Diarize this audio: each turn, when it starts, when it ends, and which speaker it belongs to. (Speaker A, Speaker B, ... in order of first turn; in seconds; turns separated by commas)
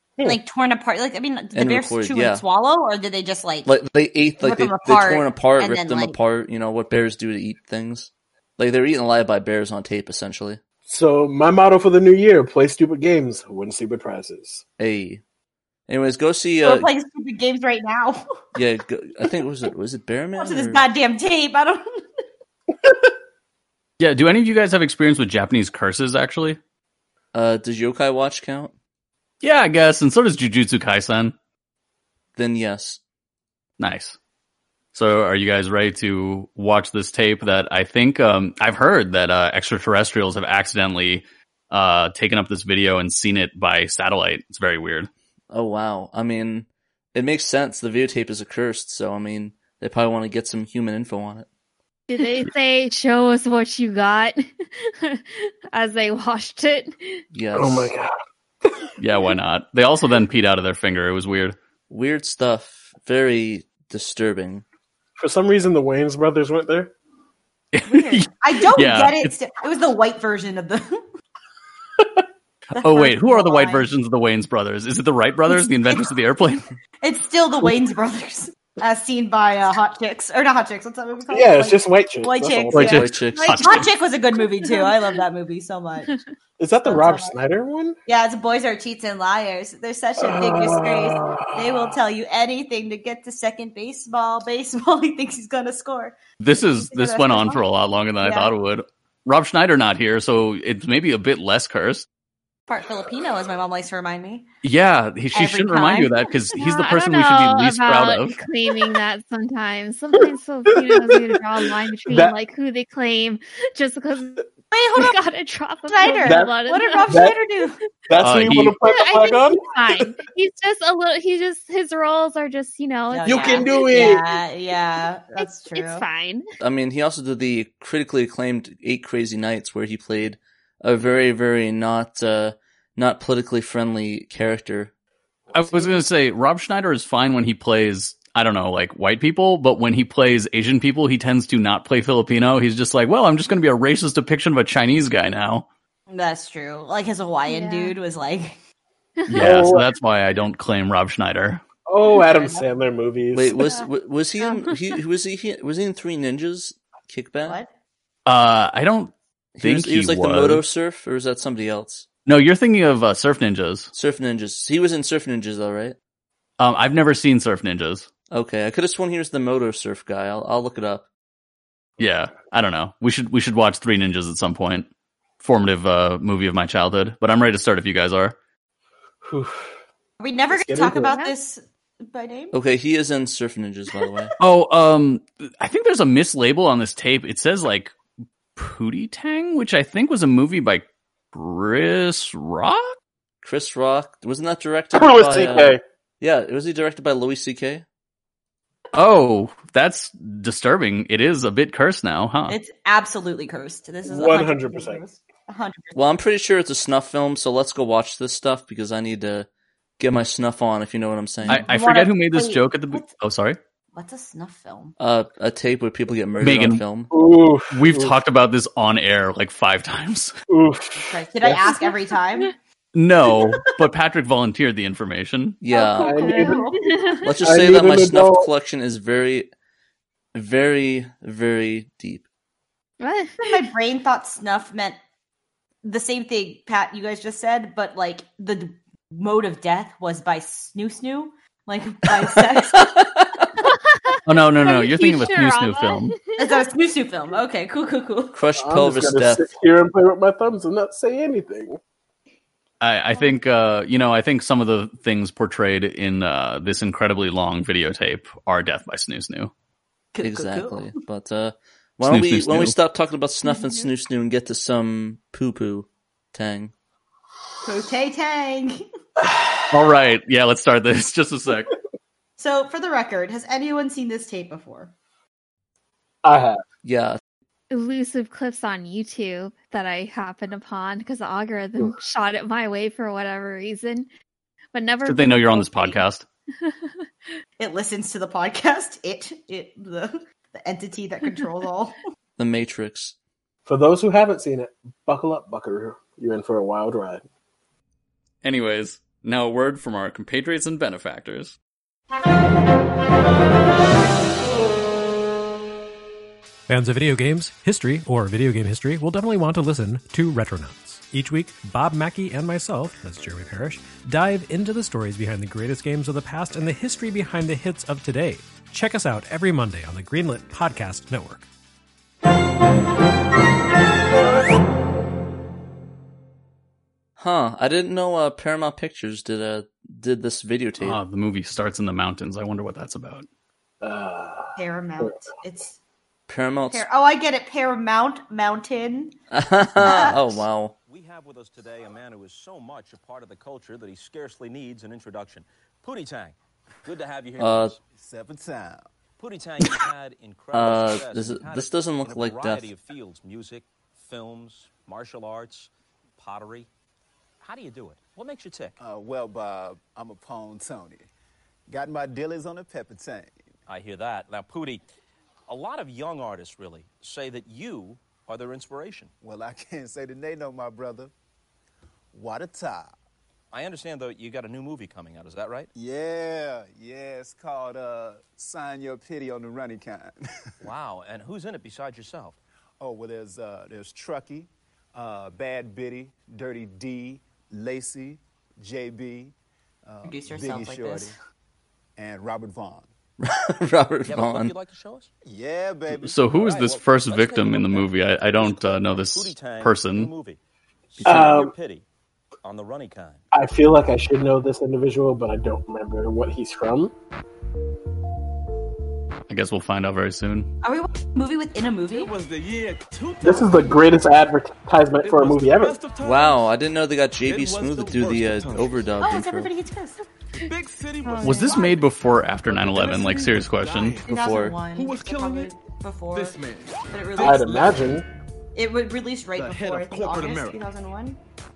Speaker A: 0.2-3.7, Speaker B: 1.5-2.4, Speaker B: 3.6-10.6, Speaker A: 4.4-6.2, Speaker C: 10.8-14.6, Speaker B: 14.8-15.2, Speaker B: 15.9-16.9, Speaker A: 16.6-18.2, Speaker B: 18.5-20.8, Speaker A: 20.4-21.8, Speaker D: 24.0-26.6, Speaker B: 27.3-28.7, Speaker D: 29.4-31.3, Speaker B: 32.4-33.0, Speaker D: 33.8-34.2, Speaker D: 34.9-45.1, Speaker B: 45.5-51.5, Speaker E: 52.1-57.2, Speaker B: 57.3-57.9, Speaker C: 57.5-58.1, Speaker D: 59.0-61.5, Speaker B: 61.9-64.6, Speaker C: 65.2-66.9, Speaker D: 67.7-69.3, Speaker A: 67.8-71.0, Speaker D: 72.8-76.7, Speaker A: 72.8-73.8, Speaker A: 75.5-83.0, Speaker C: 81.3-83.0, Speaker D: 82.7-83.8, Speaker B: 82.8-83.6, Speaker E: 83.3-83.8, Speaker A: 83.5-86.1, Speaker E: 84.4-84.9, Speaker C: 86.6-88.0, Speaker A: 86.8-87.3, Speaker A: 88.0-96.1, Speaker C: 90.2-91.5, Speaker D: 96.4-102.0, Speaker A: 96.9-97.6, Speaker A: 98.2-98.5, Speaker A: 102.7-104.5, Speaker D: 104.6-108.4, Speaker A: 105.3-106.1, Speaker E: 106.5-117.2, Speaker C: 110.7-111.2, Speaker C: 112.1-112.3, Speaker A: 114.7-115.1, Speaker A: 115.9-117.8, Speaker C: 116.2-116.5, Speaker C: 117.1-117.3, Speaker C: 118.1-120.1, Speaker D: 118.2-118.8, Speaker E: 118.8-124.0, Speaker A: 123.1-126.0, Speaker C: 123.2-124.3, Speaker E: 125.4-126.5, Speaker B: 126.6-134.9, Speaker D: 135.5-145.7, Speaker A: 146.1-148.6, Speaker E: 147.4-147.9, Speaker D: 149.3-151.6, Speaker C: 149.4-149.8, Speaker C: 151.9-153.6, Speaker A: 152.1-152.6, Speaker B: 153.3-157.6, Speaker E: 154.4-154.8, Speaker A: 157.4-157.7, Speaker D: 158.2-160.6, Speaker B: 159.6-162.1, Speaker D: 162.2-163.9, Speaker B: 163.9-165.9, Speaker D: 166.6-168.1, Speaker B: 168.3-171.1, Speaker D: 172.0-174.9, Speaker D: 175.4-178.3, Speaker C: 179.2-179.7, Speaker A: 180.2-182.5, Speaker C: 180.5-181.1, Speaker E: 181.0-181.3, Speaker B: 182.5-184.3, Speaker D: 184.4-187.9, Speaker D: 188.6-192.9, Speaker B: 193.4-197.8, Speaker C: 194.9-195.8, Speaker D: 198.9-202.6, Speaker A: 202.5-206.0, Speaker C: 204.1-205.0, Speaker B: 205.9-209.5, Speaker B: 210.0-211.6, Speaker A: 211.4-213.1, Speaker D: 211.5-213.6, Speaker A: 213.9-214.9, Speaker B: 215.0-217.1, Speaker D: 216.4-216.8, Speaker C: 217.1-218.1, Speaker D: 217.7-220.3, Speaker C: 220.5-221.6, Speaker A: 221.1-222.5, Speaker D: 222.9-225.6, Speaker B: 225.6-226.3, Speaker A: 225.7-226.9, Speaker C: 226.0-226.6, Speaker E: 226.1-227.2, Speaker B: 227.2-229.5, Speaker C: 227.2-228.5, Speaker B: 230.3-232.2, Speaker E: 233.0-233.4, Speaker A: 233.4-235.0, Speaker A: 235.8-243.1, Speaker B: 242.6-243.5, Speaker E: 243.7-246.6, Speaker D: 244.2-246.1, Speaker A: 246.4-248.4, Speaker B: 248.3-249.5, Speaker C: 248.6-251.8, Speaker D: 252.8-259.5, Speaker A: 260.1-260.9, Speaker B: 260.2-266.7, Speaker D: 262.0-262.7, Speaker E: 263.5-263.8, Speaker A: 267.6-268.8, Speaker C: 269.2-269.6, Speaker D: 269.7-271.7, Speaker A: 272.4-274.9, Speaker C: 276.2-276.6, Speaker B: 276.8-277.2, Speaker E: 277.7-284.1, Speaker E: 284.7-286.0, Speaker D: 285.0-286.2, Speaker E: 286.6-287.1, Speaker A: 287.6-292.0, Speaker B: 292.4-293.1, Speaker C: 293.6-297.2, Speaker D: 298.4-301.6, Speaker F: 306.7-321.4, Speaker B: 327.2-331.0, Speaker D: 330.8-333.2, Speaker C: 333.8-335.1, Speaker A: 334.6-335.8, Speaker B: 336.3-336.9, Speaker A: 336.7-339.1, Speaker B: 339.3-340.7, Speaker A: 339.8-340.4, Speaker G: 340.9-347.8, Speaker B: 347.4-347.7, Speaker H: 347.9-348.9, Speaker G: 349.2-356.7, Speaker B: 350.5-352.7, Speaker G: 357.4-358.8, Speaker H: 358.8-361.1, Speaker H: 361.7-363.4, Speaker G: 363.7-364.8, Speaker G: 365.5-369.1, Speaker H: 369.2-371.1, Speaker H: 372.1-372.9, Speaker G: 373.5-375.7, Speaker H: 375.7-380.1, Speaker G: 380.6-382.4, Speaker H: 382.8-389.3, Speaker H: 389.8-391.1, Speaker A: 390.0-391.1, Speaker H: 392.0-392.9, Speaker B: 393.2-394.5, Speaker G: 394.0-395.1, Speaker H: 395.2-396.1, Speaker D: 396.0-400.1, Speaker G: 396.1-400.4, Speaker G: 400.9-401.8, Speaker C: 401.0-401.5, Speaker G: 402.4-403.2, Speaker C: 403.3-406.9, Speaker D: 409.3-410.5, Speaker A: 410.6-412.1, Speaker I: 411.9-413.8, Speaker C: 413.2-415.8, Speaker I: 415.0-416.5, Speaker B: 416.0-419.5, Speaker I: 417.2-418.9, Speaker A: 419.0-420.0, Speaker I: 420.4-421.7, Speaker A: 421.1-421.8, Speaker E: 421.2-421.5, Speaker D: 421.2-424.0, Speaker I: 422.4-424.1, Speaker B: 424.1-424.6, Speaker A: 424.1-426.4, Speaker I: 424.7-425.5, Speaker I: 426.1-428.0, Speaker A: 426.9-427.8, Speaker C: 427.2-428.1, Speaker A: 428.5-431.2, Speaker I: 429.4-430.6